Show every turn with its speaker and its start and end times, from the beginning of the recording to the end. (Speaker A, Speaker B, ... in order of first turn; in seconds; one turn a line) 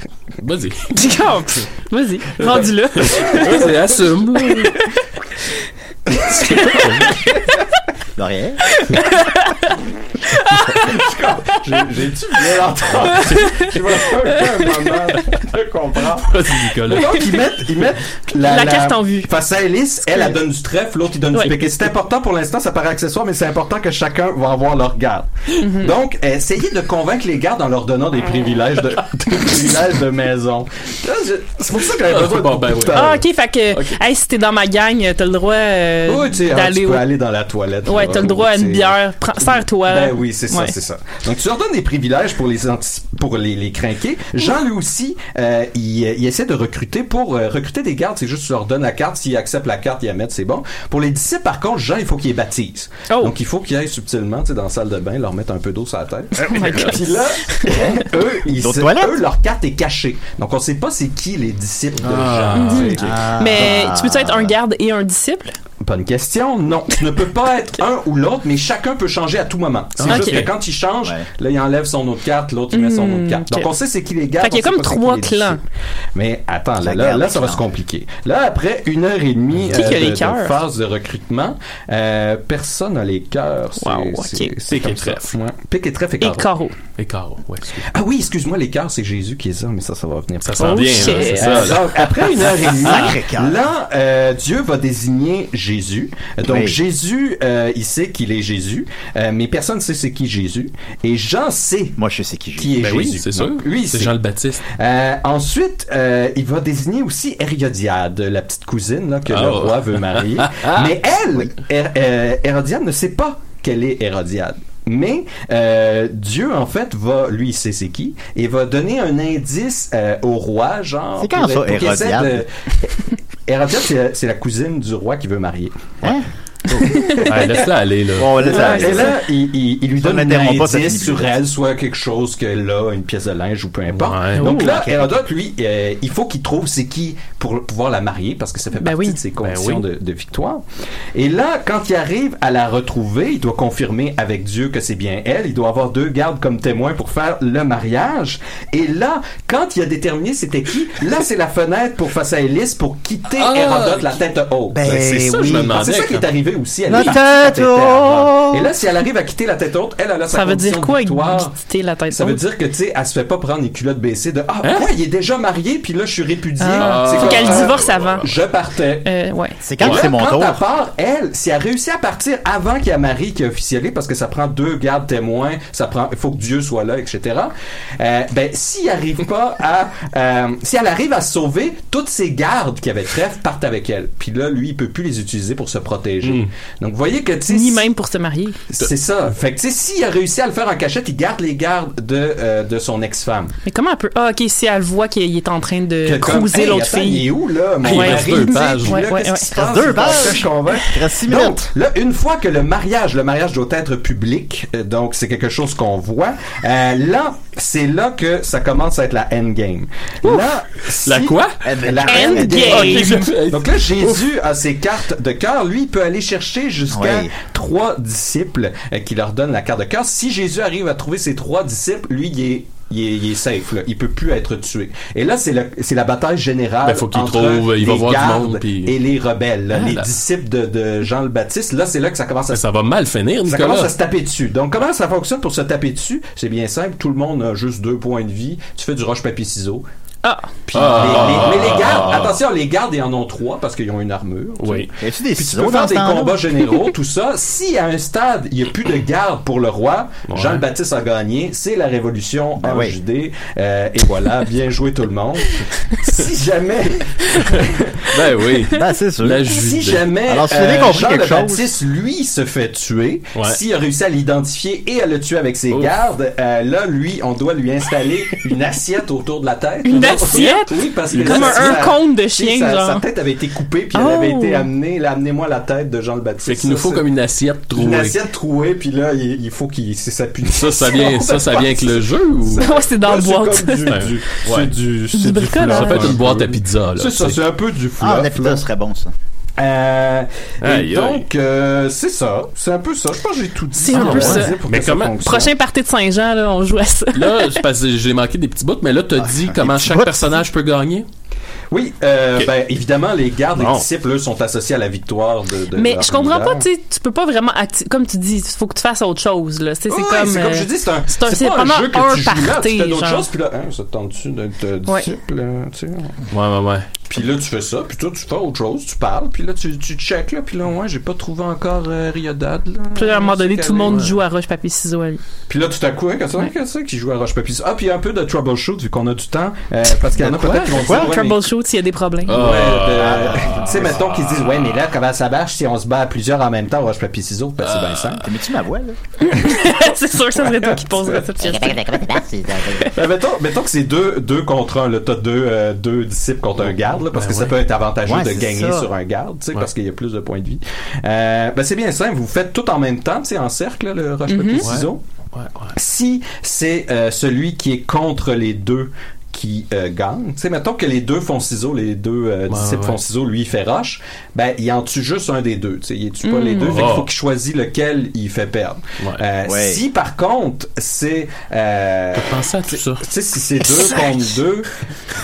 Speaker A: 0.4-1.1
Speaker B: 0.9-3.6
Speaker C: 2.4-3.7
Speaker A: 3.1-4.8
Speaker A: 6.5-7.2
Speaker B: 6.5-7.2
Speaker C: 6.8-7.1
Speaker D: 8.2-8.6
Speaker B: 8.7-9.8
Speaker B: 10.3-11.8
Speaker C: 10.8-33.2
Speaker B: 13.2-13.7
Speaker B: 14.3-14.9
Speaker A: 16.2-17.5
Speaker B: 17.0-17.3
Speaker B: 18.4-19.3
Speaker B: 20.1-20.4
Speaker B: 21.3-21.8
Speaker B: 25.6-26.0
Speaker A: 32.1-33.2
Speaker B: 32.9-37.1
Speaker A: 33.7-34.0
Speaker C: 36.1-63.1
Speaker B: 37.9-40.8
Speaker B: 53.1-53.4
Speaker B: 56.4-57.7
Speaker D: 58.5-59.2
Speaker A: 62.0-63.0
Speaker B: 62.5-65.5
Speaker D: 63.0-64.6
Speaker C: 65.8-75.6
Speaker B: 66.9-67.2
Speaker A: 70.0-70.5
Speaker B: 70.1-70.4
Speaker B: 72.7-73.7
Speaker B: 74.4-75.6
Speaker C: 76.2-86.5
Speaker D: 76.8-77.6
Speaker A: 79.5-80.1
Speaker B: 79.7-80.6
Speaker B: 83.8-84.6
Speaker A: 84.7-85.4
Speaker B: 86.2-86.8
Speaker A: 87.0-87.9
Speaker C: 87.9-102.0
Speaker A: 90.5-93.1
Speaker B: 90.6-91.8
Speaker D: 92.7-93.6
Speaker D: 96.4-96.8
Speaker D: 102.0-102.8
Speaker C: 102.6-104.1
Speaker A: 102.8-104.6
Speaker C: 104.7-122.5
Speaker A: 109.3-111.0
Speaker D: 121.2-122.5
Speaker C: 123.5-126.2
Speaker B: 126.8-127.3
Speaker A: 127.2-128.6
Speaker D: 128.2-129.2
Speaker B: 128.5-129.1
Speaker C: 128.5-161.6
Speaker D: 130.0-131.3
Speaker A: 134.0-134.7
Speaker B: 134.3-135.0
Speaker B: 138.8-139.2
Speaker A: 139.4-139.8
Speaker A: 153.3-156.3
Speaker D: 154.7-155.7
Speaker D: 156.9-158.7
Speaker B: 160.3-162.4
Speaker C: 162.1-169.1
Speaker A: 164.6-164.9
Speaker B: 166.6-168.3
Speaker A: 166.8-168.4
Speaker B: 169.0-169.6
Speaker D: 169.6-170.6
Speaker C: 169.8-187.9
Speaker A: 169.8-170.1
Speaker A: 186.2-186.5
Speaker B: 187.5-188.7
Speaker C: 188.7-193.5
Speaker B: 193.7-197.3
Speaker C: 196.0-232.7
Speaker A: 197.8-199.1
Speaker B: 197.9-200.1
Speaker D: 199.5-201.7
Speaker A: 211.0-211.6
Speaker D: 211.6-212.8
Speaker B: 212.1-213.3
Speaker A: 212.6-214.2
Speaker D: 216.9-217.3
Speaker A: 226.8-229.0
Speaker A: 229.8-230.1
Speaker A: 232.5-233.9
Speaker C: 233.4-239.9
Speaker B: 240.2-240.6
Speaker C: 240.7-255.5
Speaker A: 240.7-242.4
Speaker D: 240.9-242.2
Speaker A: 244.6-244.9
Speaker D: 245.0-246.5
Speaker A: 250.3-250.7
Speaker D: 252.6-253.0
Speaker C: 256.0-258.1
Speaker A: 257.4-260.1
Speaker D: 258.7-259.5
Speaker C: 259.6-277.1
Speaker D: 260.3-261.7
Speaker B: 269.8-273.1
Speaker A: 270.0-271.8
Speaker B: 273.9-274.7
Speaker A: 276.4-278.2
Speaker C: 277.7-288.7
Speaker A: 280.5-282.7
Speaker B: 282.5-284.1
Speaker A: 283.9-287.4
Speaker B: 285.1-286.2
Speaker D: 288.0-289.1
Speaker C: 289.6-295.5
Speaker A: 290.6-291.3
Speaker B: 293.8-294.6
Speaker A: 293.9-295.2
Speaker B: 295.2-297.6
Speaker A: 297.1-301.1
Speaker D: 299.2-300.4
Speaker C: 301.7-306.7
Speaker A: 303.6-303.9
Speaker B: 305.7-313.3
Speaker C: 309.9-316.2
Speaker B: 314.9-315.1
Speaker A: 316.3-316.9
Speaker C: 317.1-324.1
Speaker B: 322.9-325.2
Speaker A: 323.9-324.2
Speaker C: 325.5-331.5
Speaker A: 330.2-330.9
Speaker D: 330.8-331.1
Speaker B: 331.0-332.4
Speaker A: 332.3-334.8
Speaker C: 332.3-338.3
Speaker D: 333.0-333.7
Speaker A: 337.6-338.3
Speaker D: 338.2-339.0
Speaker B: 339.2-342.0
Speaker C: 340.4-341.2
Speaker D: 341.4-342.9
Speaker C: 342.9-355.0
Speaker A: 346.6-347.6
Speaker D: 348.1-348.9
Speaker B: 354.3-354.7
Speaker A: 354.6-355.8
Speaker C: 355.8-372.4
Speaker A: 362.5-363.0
Speaker B: 366.2-366.8
Speaker A: 366.6-367.1
Speaker D: 369.5-369.8
Speaker A: 372.2-373.0
Speaker C: 372.9-374.7